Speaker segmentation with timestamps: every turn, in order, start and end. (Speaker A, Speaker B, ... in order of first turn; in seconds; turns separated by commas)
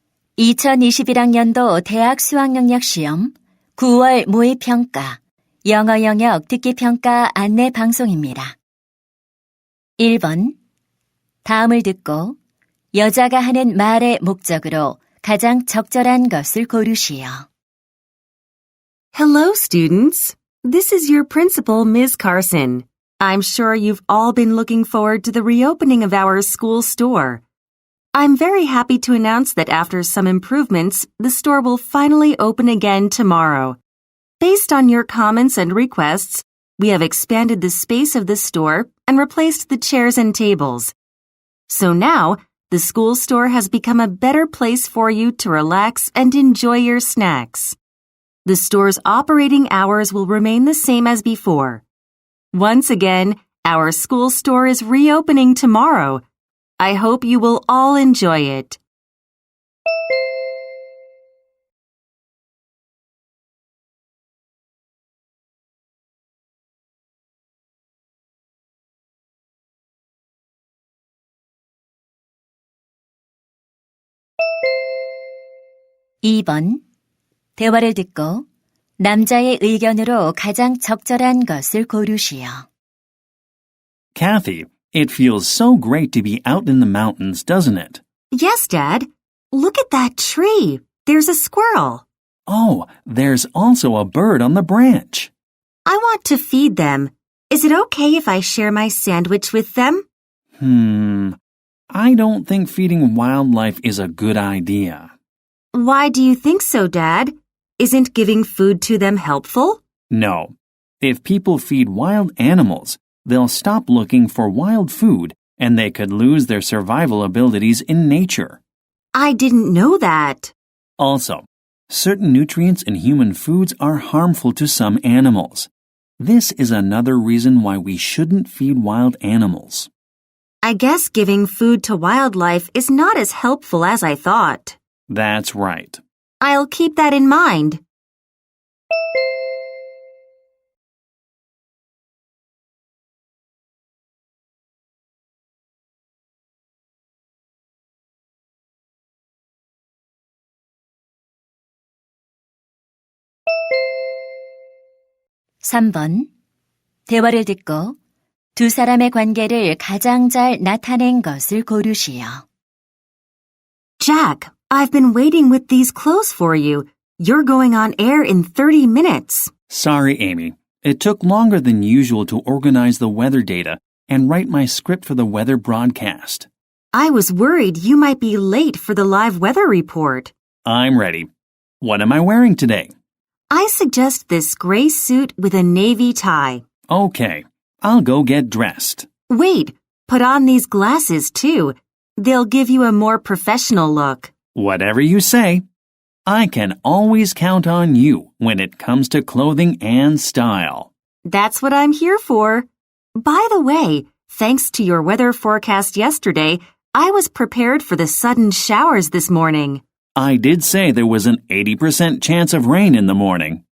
Speaker A: 0.4-8.6, Speaker A: 10.0-10.5, Speaker A: 11.4-12.3, Speaker A: 12.9-17.5, Speaker B: 19.1-27.4, Speaker B: 28.1-33.8, Speaker B: 34.4-40.9, Speaker B: 41.7-47.8, Speaker B: 48.4-51.8, Speaker B: 52.5-56.2, Speaker B: 56.8-58.8, Speaker A: 76.2-76.8, Speaker A: 77.6-78.5, Speaker A: 79.0-82.7, Speaker C: 84.1-88.0, Speaker B: 88.3-92.0, Speaker C: 92.5-95.3, Speaker B: 95.8-100.0, Speaker C: 100.6-101.4, Speaker C: 101.9-105.1, Speaker B: 105.7-109.8, Speaker C: 110.1-118.6, Speaker B: 119.1-120.5, Speaker C: 121.0-129.9, Speaker B: 130.6-134.8, Speaker C: 135.1-136.0, Speaker B: 136.4-137.8, Speaker A: 155.6-156.3, Speaker A: 157.1-157.9, Speaker A: 158.5-162.4, Speaker B: 164.0-169.5, Speaker C: 169.7-176.5, Speaker B: 176.9-180.3, Speaker C: 180.6-182.9, Speaker B: 183.5-186.6, Speaker C: 186.9-189.1, Speaker B: 189.3-194.3, Speaker C: 194.5-195.6, Speaker C: 196.2-200.9, Speaker B: 201.2-209.8, Speaker C: 210.2-213.6